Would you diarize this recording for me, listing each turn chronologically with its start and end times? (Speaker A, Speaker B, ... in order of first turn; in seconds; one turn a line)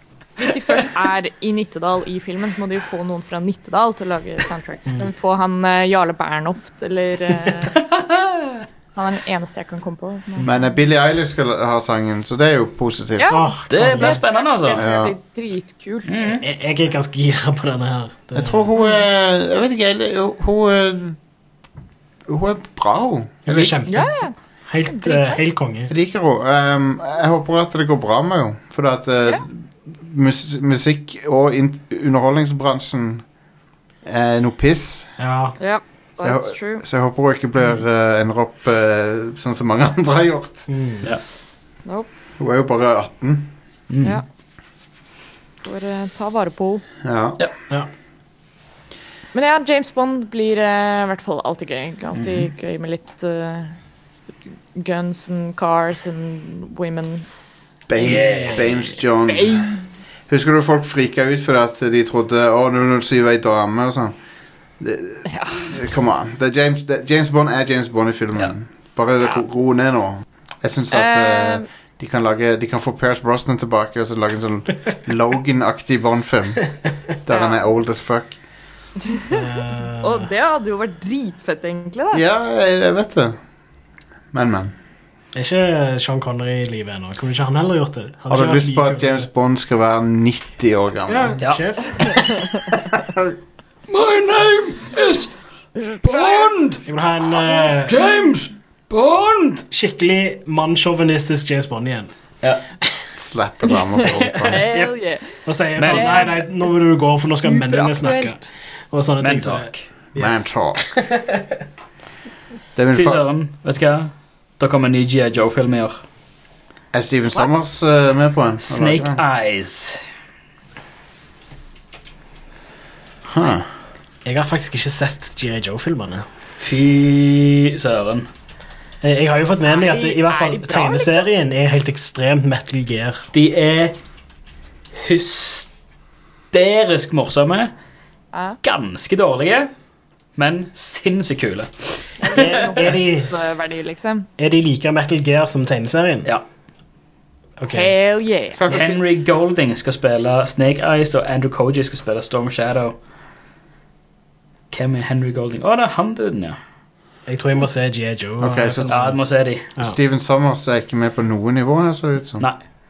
Speaker A: 0.4-7.8
Speaker B: 7.7-8.7
Speaker A: 8.9-10.7
Speaker C: 10.4-13.4
Speaker A: 13.2-16.3
Speaker D: 13.3-14.2
Speaker B: 13.7-14.8
Speaker C: 14.8-15.1
Speaker B: 16.1-16.4
Speaker D: 16.4-18.7
Speaker C: 18.3-21.2
Speaker A: 18.7-19.0
Speaker C: 22.3-23.8
Speaker D: 23.4-25.9
Speaker A: 23.9-24.3
Speaker A: 24.8-25.4
Speaker C: 25.9-33.2
Speaker C: 34.0-35.1
Speaker D: 35.2-35.5
Speaker A: 35.6-36.8
Speaker C: 36.2-40.7
Speaker D: 40.7-41.1
Speaker C: 42.4-43.5
Speaker B: 43.9-44.2
Speaker A: 45.6-46.8
Speaker C: 47.0-47.4
Speaker A: 49.3-53.8
Speaker B: 52.1-52.5
Speaker A: 54.7-58.2
Speaker C: 57.9-59.7
Speaker B: 58.0-59.0
Speaker A: 59.2-59.9
Speaker C: 60.3-64.1
Speaker C: 64.8-76.6
Speaker A: 65.3-65.7
Speaker A: 70.9-71.7
Speaker C: 77.2-78.4
Speaker A: 77.3-77.6
Speaker A: 79.1-82.2
Speaker D: 79.3-80.3
Speaker C: 82.1-83.4
Speaker C: 84.3-84.7
Speaker D: 85.3-89.2
Speaker C: 88.3-91.4
Speaker D: 91.1-92.4
Speaker B: 91.4-91.6
Speaker A: 92.2-92.6
Speaker C: 92.7-93.3
Speaker B: 93.9-95.3
Speaker A: 95.8-96.5
Speaker B: 96.0-96.8
Speaker D: 96.8-98.0
Speaker A: 97.4-97.7
Speaker B: 97.8-99.7
Speaker D: 99.7-102.1
Speaker C: 103.1-104.7
Speaker B: 104.0-104.6
Speaker A: 104.4-105.3
Speaker D: 105.4-108.4
Speaker B: 105.8-106.3
Speaker A: 105.9-106.4
Speaker A: 107.4-108.4
Speaker D: 108.9-111.6
Speaker B: 109.2-109.8
Speaker C: 110.2-110.8
Speaker C: 112.8-113.2
Speaker B: 112.9-116.0
Speaker C: 116.9-119.2
Speaker B: 118.6-120.0
Speaker C: 123.2-123.7
Speaker D: 124.2-126.2
Speaker B: 126.6-128.3
Speaker D: 129.0-133.2
Speaker A: 129.7-131.3
Speaker B: 133.3-134.0
Speaker B: 134.9-135.7
Speaker B: 136.5-137.7
Speaker A: 138.3-138.6
Speaker B: 138.6-139.7
Speaker B: 140.3-142.5
Speaker A: 142.2-144.3
Speaker D: 142.3-143.3
Speaker D: 144.4-146.3
Speaker D: 147.6-147.9
Speaker A: 147.7-148.9
Speaker C: 148.6-148.9
Speaker B: 148.7-153.0
Speaker B: 154.7-156.6
Speaker D: 157.2-159.2
Speaker C: 158.4-159.1
Speaker B: 158.9-159.7
Speaker C: 159.8-162.4